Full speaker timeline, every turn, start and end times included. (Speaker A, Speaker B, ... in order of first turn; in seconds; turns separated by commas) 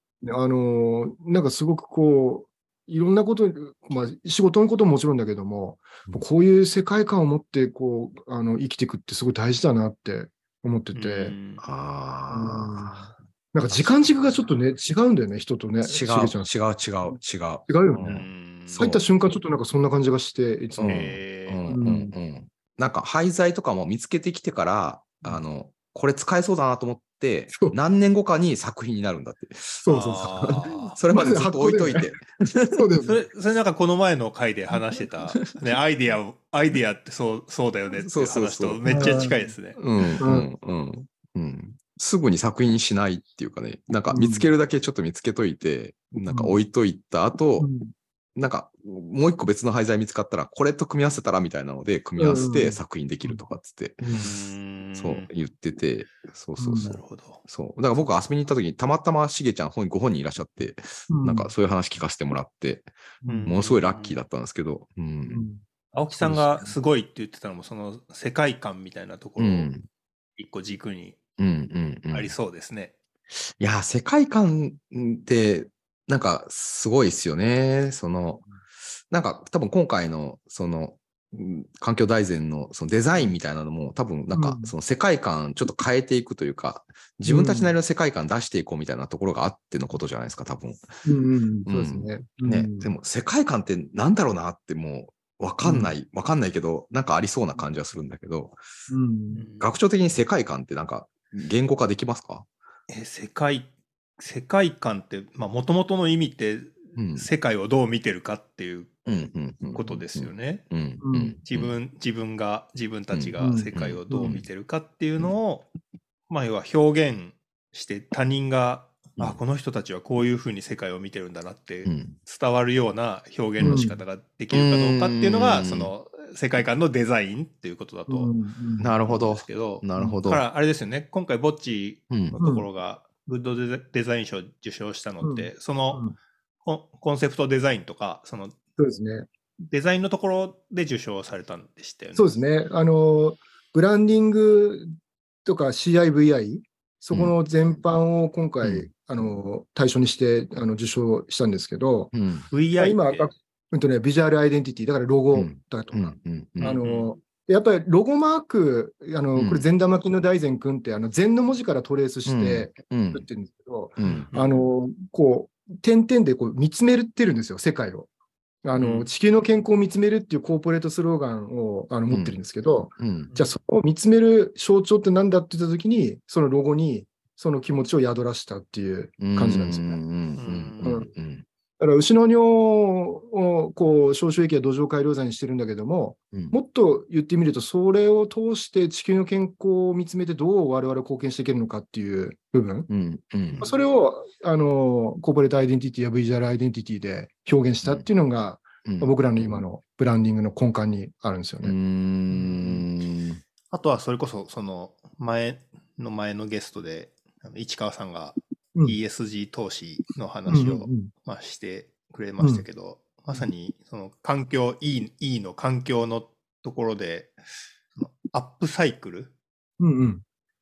Speaker A: 0.2-11.4, Speaker B: 10.9-11.6, Speaker C: 11.6-13.1, Speaker A: 12.3-16.4, Speaker C: 13.7-14.2, Speaker C: 15.8-19.1, Speaker A: 17.7-18.3, Speaker B: 18.0-19.0, Speaker A: 18.8-21.1, Speaker C: 20.8-32.8, Speaker B: 20.8-21.7, Speaker A: 21.7-22.1, Speaker A: 29.9-30.1, Speaker B: 29.9-30.9, Speaker A: 31.1-32.1, Speaker A: 32.7-33.2, Speaker B: 33.0-39.8, Speaker C: 35.0-35.7, Speaker C: 38.0-39.2, Speaker A: 38.9-39.5, Speaker C: 39.8-47.7, Speaker A: 40.2-40.5, Speaker A: 44.1-44.5, Speaker A: 46.3-46.6, Speaker A: 47.6-47.9, Speaker C: 48.3-54.3, Speaker A: 52.2-53.4, Speaker A: 54.0-54.3, Speaker B: 54.1-55.3, Speaker C: 55.0-62.9, Speaker A: 56.6-57.0, Speaker B: 56.8-57.4, Speaker A: 61.1-61.5, Speaker A: 63.2-63.5, Speaker B: 63.2-64.2, Speaker C: 63.4-65.5, Speaker A: 65.3-65.6, Speaker B: 65.9-69.7, Speaker C: 66.2-66.7, Speaker C: 69.4-69.8, Speaker B: 70.4-71.2, Speaker C: 71.4-72.3, Speaker B: 72.1-72.9, Speaker C: 73.6-78.4, Speaker C: 79.1-91.0, Speaker A: 84.3-84.7, Speaker A: 87.2-87.7, Speaker A: 91.0-92.9, Speaker C: 91.7-98.6, Speaker A: 95.6-95.9, Speaker A: 98.9-99.5, Speaker B: 99.3-99.7, Speaker C: 99.6-102.5, Speaker B: 102.9-108.9, Speaker C: 107.0-107.3, Speaker C: 109.0-111.8, Speaker B: 109.7-110.7, Speaker A: 111.0-111.4, Speaker B: 111.5-115.7, Speaker C: 113.1-114.5, Speaker A: 113.4-114.4, Speaker B: 116.3-128.4, Speaker C: 121.8-122.2, Speaker A: 123.6-124.0, Speaker C: 124.5-125.9, Speaker A: 128.1-128.9, Speaker C: 128.8-130.4, Speaker B: 129.0-136.0, Speaker C: 132.1-132.4, Speaker A: 132.4-132.7, Speaker A: 135.2-136.1, Speaker B: 136.6-138.6, Speaker A: 138.8-139.3, Speaker B: 139.7-142.3, Speaker A: 142.2-144.9, Speaker A: 145.4-152.1, Speaker C: 148.6-148.9, Speaker C: 152.1-152.5, Speaker B: 152.5-153.3, Speaker A: 152.8-168.1, Speaker C: 155.3-156.8, Speaker B: 156.6-157.1, Speaker C: 159.3-159.7, Speaker C: 162.2-163.2, Speaker C: 164.0-164.2, Speaker B: 164.0-164.6, Speaker A: 168.6-180.0, Speaker B: 168.8-169.1, Speaker C: 172.1-172.4, Speaker C: 172.9-173.3, Speaker C: 179.2-181.4, Speaker B: 180.4-181.0, Speaker A: 180.8-181.1, Speaker A: 181.8-192.9, Speaker C: 192.9-193.6, Speaker B: 193.5-193.8, Speaker A: 193.6-201.8, Speaker C: 197.8-198.1, Speaker C: 198.8-199.6, Speaker C: 201.6-203.4, Speaker B: 202.3-202.9, Speaker B: 203.7-217.4, Speaker A: 210.5-211.1, Speaker A: 212.4-212.6, Speaker B: 218.0-219.3, Speaker A: 219.8-220.2